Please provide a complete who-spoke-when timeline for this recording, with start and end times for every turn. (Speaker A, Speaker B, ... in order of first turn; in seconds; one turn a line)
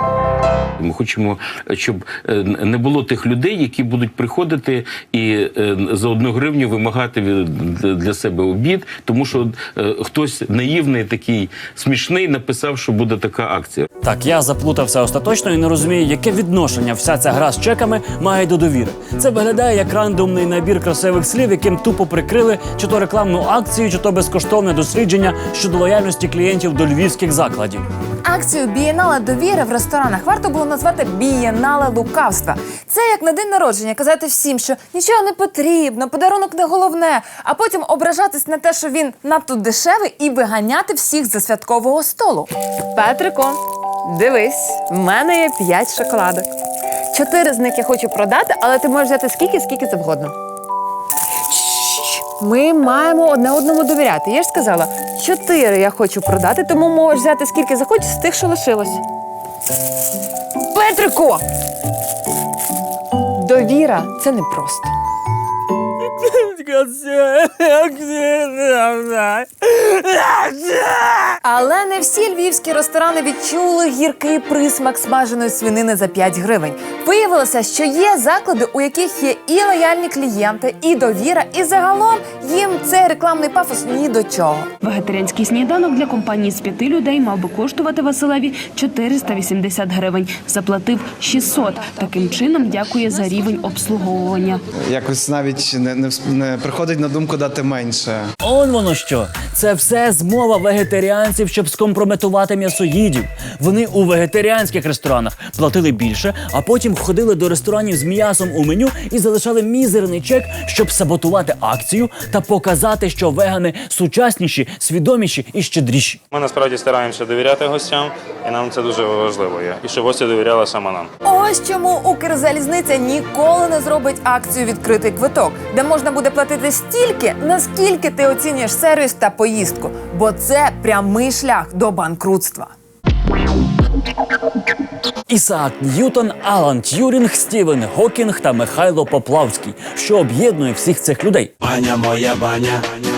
Speaker A: 0.8-13.9
Speaker B: 14.0-27.8
Speaker C: 28.2-46.5
Speaker C: 47.1-50.3
Speaker C: 51.5-59.0
Speaker C: 60.7-61.4
Speaker C: 63.4-64.9
Speaker B: 66.2-71.4
Speaker C: 71.4-84.7
Speaker D: 84.8-94.6
Speaker E: 94.8-98.3
Speaker B: 98.4-116.2
Speaker F: 116.3-121.1
Speaker C: 121.2-132.7
Speaker B: 135.3-141.5